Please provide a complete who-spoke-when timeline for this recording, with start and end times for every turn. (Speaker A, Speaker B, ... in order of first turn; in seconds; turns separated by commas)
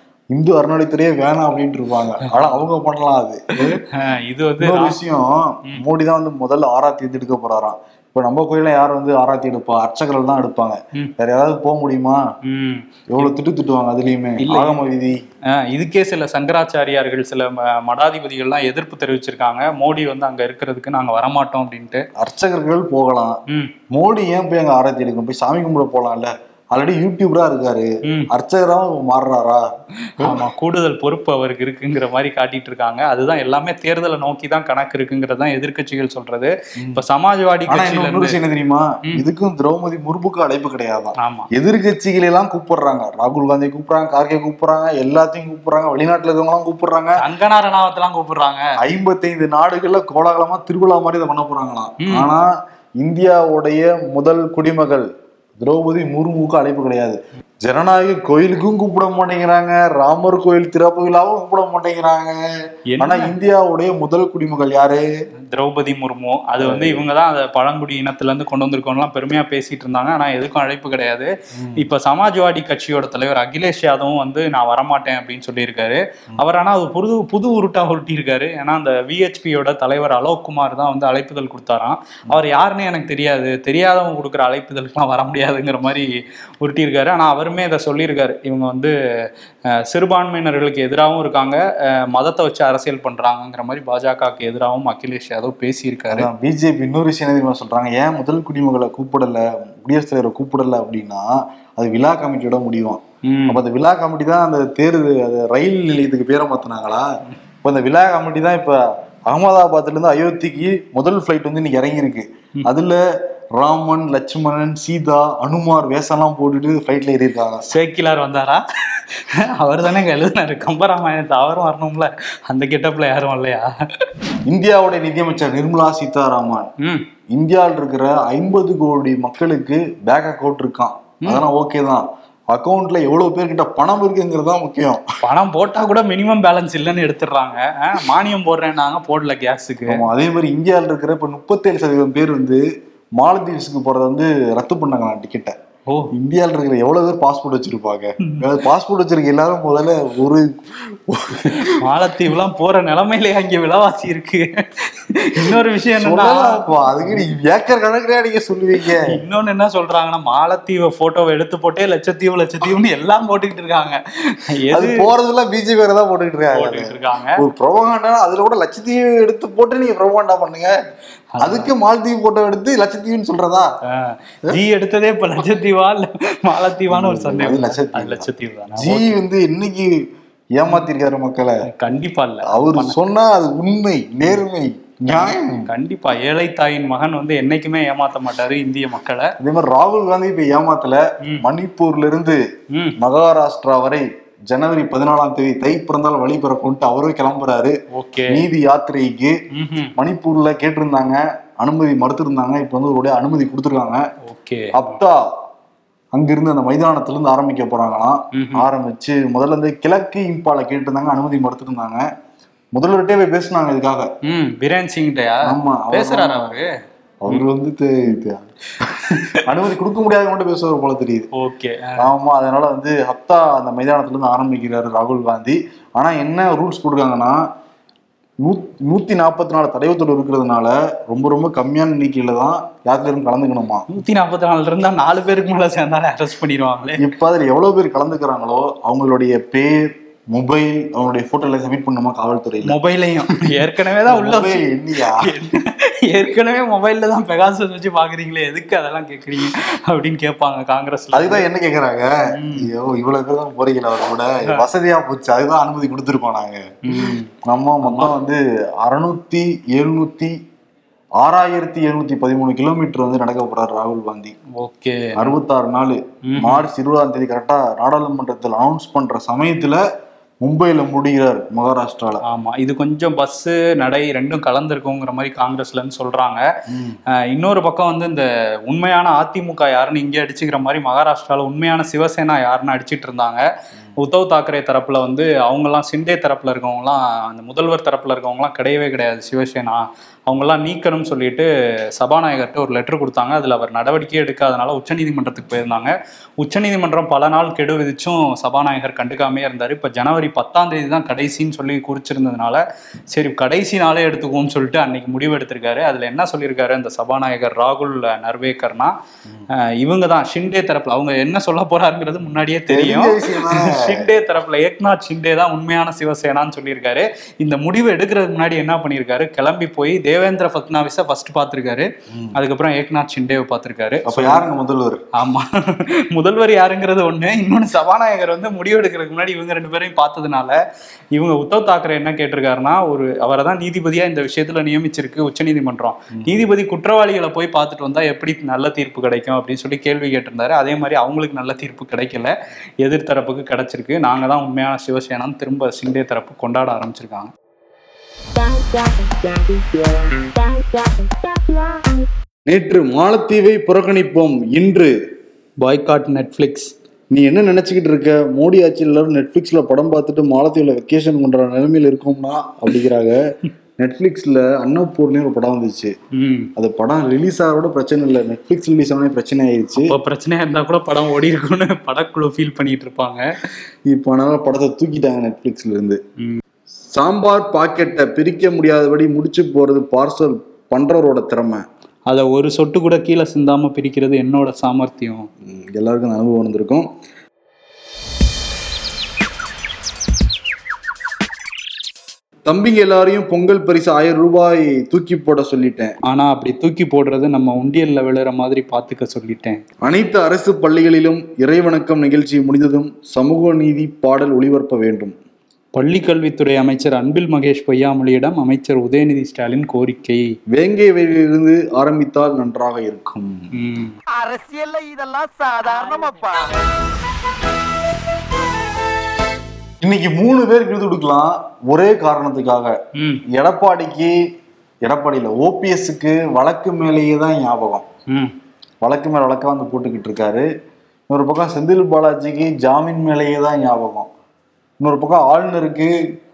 Speaker A: 0.3-3.8, Speaker B: 3.7-5.0, Speaker A: 4.6-12.2, Speaker B: 12.5-13.3, Speaker A: 13.1-15.2, Speaker B: 14.4-14.8, Speaker B: 15.5-22.1, Speaker A: 22.2-23.4, Speaker A: 23.9-29.7, Speaker B: 30.1-38.4, Speaker A: 30.2-30.5, Speaker A: 37.7-47.2, Speaker B: 41.2-41.5, Speaker B: 47.2-48.6, Speaker A: 48.8-52.5, Speaker B: 52.0-52.3, Speaker A: 53.0-55.1, Speaker A: 55.6-62.4, Speaker B: 62.9-63.3, Speaker A: 63.0-65.0, Speaker B: 65.5-86.1, Speaker A: 66.6-67.0, Speaker A: 71.6-71.8, Speaker B: 86.6-88.9, Speaker B: 89.8-96.3, Speaker A: 96.1-107.1, Speaker B: 103.2-103.6, Speaker A: 107.6-113.0, Speaker A: 113.6-117.7, Speaker B: 117.7-123.7, Speaker A: 124.5-126.7, Speaker A: 127.3-135.0, Speaker B: 135.2-140.1, Speaker A: 139.9-142.6, Speaker A: 143.2-145.6, Speaker B: 145.9-146.1, Speaker A: 146.1-151.8, Speaker B: 151.5-156.6, Speaker A: 155.4-159.1, Speaker B: 159.0-165.1, Speaker A: 164.7-170.7, Speaker B: 166.5-167.4, Speaker B: 171.4-171.7, Speaker A: 171.4-173.7, Speaker B: 173.9-179.2, Speaker A: 176.9-180.0, Speaker A: 180.6-181.6, Speaker B: 181.7-183.0, Speaker A: 182.5-185.7, Speaker B: 185.1-189.3, Speaker A: 189.4-192.4, Speaker A: 193.0-197.8, Speaker B: 197.9-198.4, Speaker A: 198.3-199.4, Speaker B: 199.5-199.9, Speaker A: 199.9-204.0, Speaker B: 204.3-204.7, Speaker A: 204.7-205.2, Speaker A: 206.1-212.1, Speaker B: 208.3-208.7, Speaker A: 212.8-214.1, Speaker B: 214.2-216.7, Speaker A: 215.4-216.6, Speaker A: 217.2-221.3, Speaker B: 219.0-219.4, Speaker B: 221.3-222.1, Speaker A: 222.0-227.4, Speaker A: 228.4-233.9, Speaker B: 233.9-237.0, Speaker A: 237.0-242.8, Speaker B: 242.6-251.4, Speaker A: 243.4-245.3, Speaker A: 251.1-260.4, Speaker B: 252.3-252.7, Speaker B: 256.9-257.3, Speaker B: 257.8-258.1, Speaker A: 261.2-264.4, Speaker B: 264.6-265.2, Speaker A: 265.1-269.8, Speaker B: 266.3-266.6, Speaker A: 270.4-272.2, Speaker B: 272.2-276.4, Speaker A: 276.7-277.0, Speaker B: 277.2-283.4, Speaker B: 284.0-308.9, Speaker B: 309.5-324.4, Speaker A: 312.7-314.1, Speaker A: 322.1-322.4, Speaker A: 324.1-325.0, Speaker B: 325.1-330.6, Speaker B: 331.1-347.3, Speaker A: 336.1-336.5, Speaker A: 352.4-354.9, Speaker B: 355.6-356.7, Speaker A: 357.1-363.2, Speaker A: 363.8-365.9, Speaker B: 366.1-366.5, Speaker A: 366.6-369.9, Speaker B: 369.8-373.4, Speaker A: 373.9-376.0, Speaker A: 376.9-381.6, Speaker B: 382.1-385.3, Speaker A: 385.4-386.9, Speaker A: 392.4-395.9, Speaker B: 396.1-399.6, Speaker A: 399.8-405.1, Speaker B: 405.8-410.2, Speaker A: 410.5-413.5, Speaker B: 413.5-413.9, Speaker C: 414.1-416.6, Speaker A: 419.8-422.8, Speaker B: 423.0-423.2, Speaker A: 423.3-424.1, Speaker A: 424.8-427.9, Speaker A: 428.8-430.4, Speaker A: 431.1-434.1, Speaker A: 434.8-435.9